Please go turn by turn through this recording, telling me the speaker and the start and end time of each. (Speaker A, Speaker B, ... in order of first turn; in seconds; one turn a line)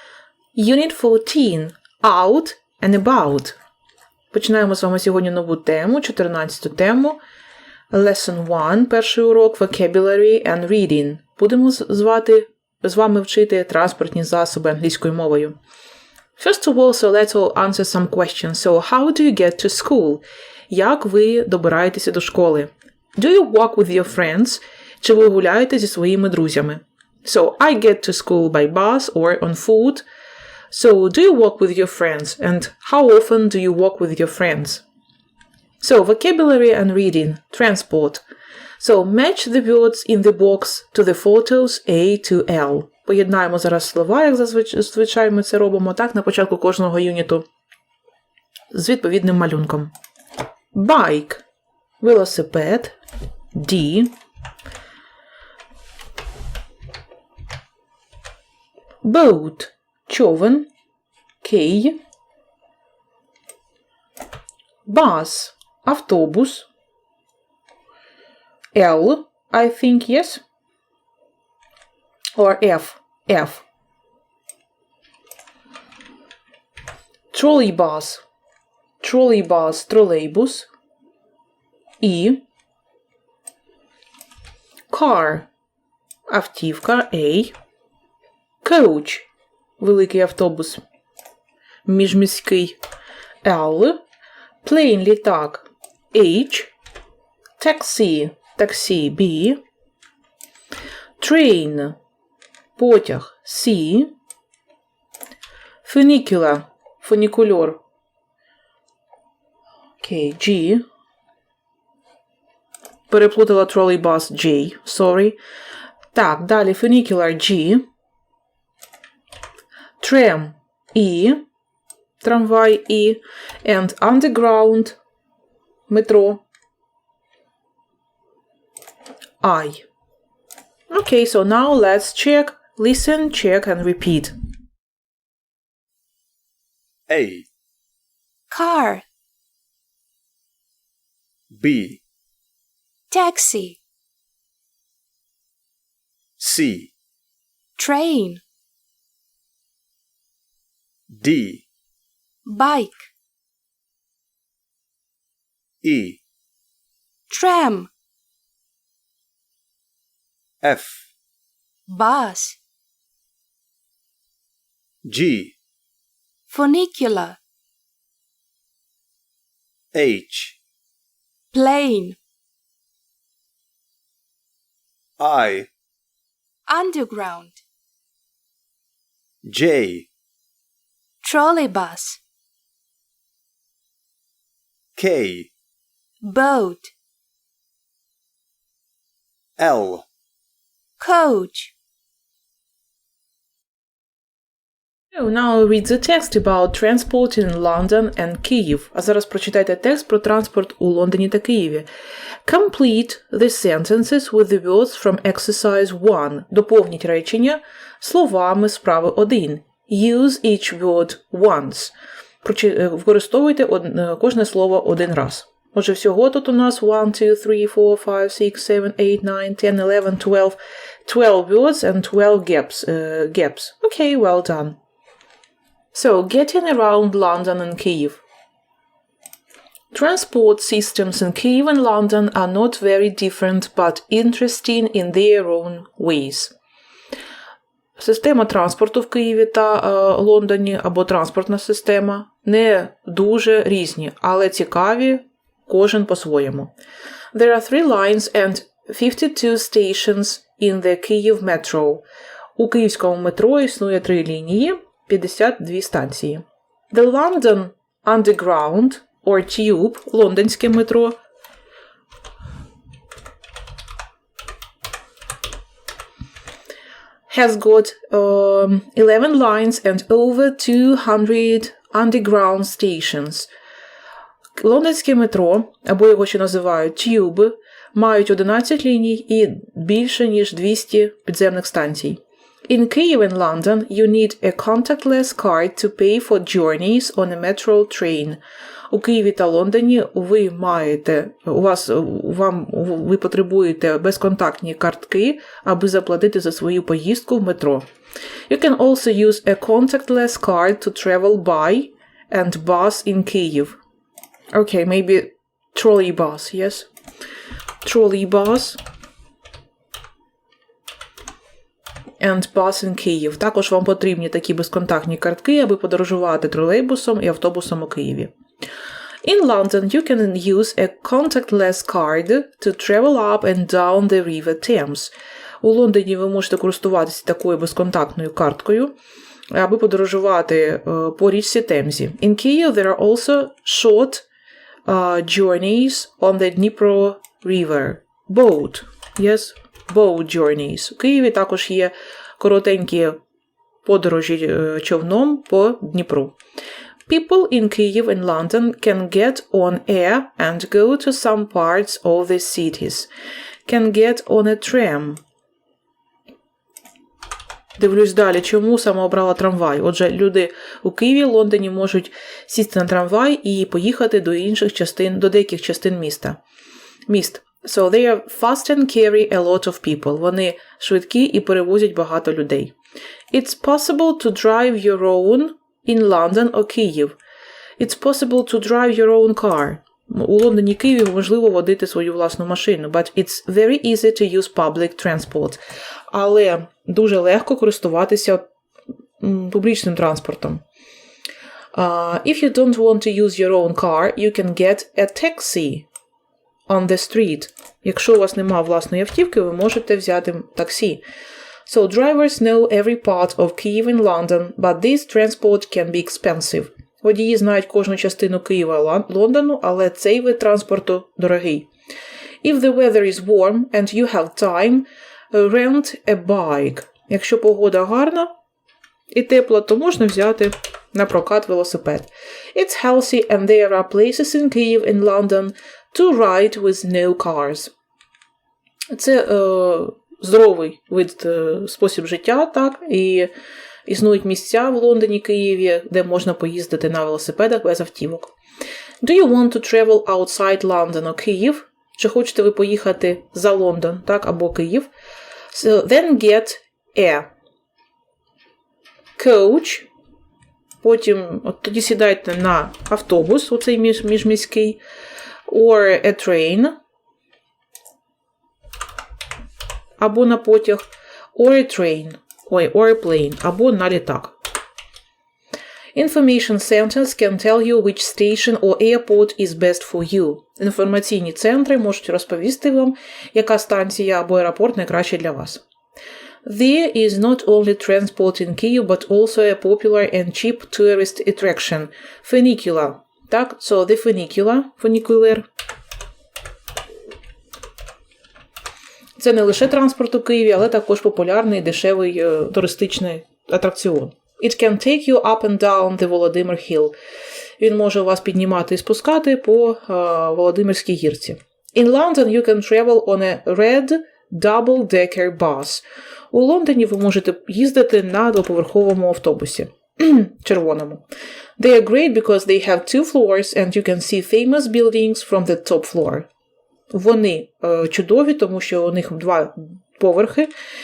Speaker A: 0.5-3.5
Speaker A: 4.3-7.2
Speaker A: 7.9-15.6
Speaker A: 16.4-30.0
Speaker A: 30.7-34.8
Speaker A: 35.8-38.2
Speaker A: 38.8-47.4
Speaker A: 48.7-49.9
Speaker A: 50.7-51.4
Speaker A: 52.0-53.0
Speaker A: 53.5-54.1
Speaker A: 59.0-60.7
Speaker A: 61.4-62.0
Speaker A: 64.8-66.7
Speaker A: 68.7-70.4
Speaker A: 72.4-73.6
Speaker A: 77.3-78.2
Speaker A: 79.0-80.7
Speaker A: 82.0-82.4
Speaker A: 84.9-85.5
Speaker A: 86.3-87.5
Speaker A: 88.6-89.2
Speaker A: 89.8-90.8
Speaker A: 91.8-92.8
Speaker A: 93.4-94.0
Speaker A: 94.6-96.7
Speaker A: 97.6-99.6
Speaker A: 101.2-102.0
Speaker A: 102.8-104.1
Speaker A: 105.8-107.8
Speaker A: 110.0-110.8
Speaker A: 113.1-115.4
Speaker A: 116.1-117.8
Speaker A: 120.0-121.4
Speaker A: 122.2-125.0
Speaker A: 125.9-126.4
Speaker A: 129.4-129.8
Speaker A: 130.9-134.3
Speaker B: 137.1-137.5
Speaker C: 138.5-139.0
Speaker B: 141.5-142.0
Speaker C: 143.1-143.8
Speaker B: 146.4-146.9
Speaker C: 147.8-148.4
Speaker B: 151.1-151.6
Speaker C: 152.4-153.1
Speaker B: 155.8-156.2
Speaker C: 157.3-157.9
Speaker B: 160.6-161.1
Speaker C: 161.9-162.6
Speaker B: 165.0-165.5
Speaker C: 166.5-167.4
Speaker B: 169.9-170.6
Speaker C: 171.5-172.2
Speaker B: 175.2-175.7
Speaker C: 176.7-177.6
Speaker B: 179.4-180.1
Speaker C: 181.2-182.2
Speaker B: 184.9-185.5
Speaker C: 186.2-186.9
Speaker B: 189.6-190.1
Speaker C: 191.0-191.7
Speaker A: 195.1-201.9
Speaker A: 202.4-224.8
Speaker A: 225.9-228.2
Speaker A: 229.9-236.5
Speaker A: 238.0-246.7
Speaker A: 247.3-252.0
Speaker A: 252.6-261.2
Speaker A: 267.3-273.5
Speaker A: 274.6-297.9
Speaker A: 298.5-303.8
Speaker A: 304.5-306.9
Speaker A: 307.8-308.8
Speaker A: 312.2-318.3
Speaker A: 319.2-328.9
Speaker A: 329.5-334.2
Speaker A: 334.9-343.2
Speaker A: 343.8-346.4
Speaker A: 347.1-353.1
Speaker A: 353.6-355.2
Speaker A: 357.8-366.4
Speaker A: 367.1-372.7
Speaker A: 373.3-377.2
Speaker A: 377.8-385.6
Speaker A: 386.1-388.4
Speaker A: 389.2-390.6
Speaker A: 391.7-395.9
Speaker A: 396.7-401.0
Speaker A: 401.6-411.7
Speaker A: 412.4-418.3
Speaker A: 419.1-427.7
Speaker A: 428.9-433.3
Speaker A: 433.9-438.3
Speaker A: 439.0-444.9
Speaker A: 445.5-447.3
Speaker A: 449.2-449.9
Speaker A: 450.8-454.8
Speaker A: 455.5-456.8
Speaker A: 460.0-460.8
Speaker A: 461.3-464.4
Speaker A: 465.9-475.6
Speaker A: 476.4-485.4
Speaker A: 489.2-496.9
Speaker A: 497.6-511.0
Speaker A: 511.6-516.3
Speaker A: 516.9-520.5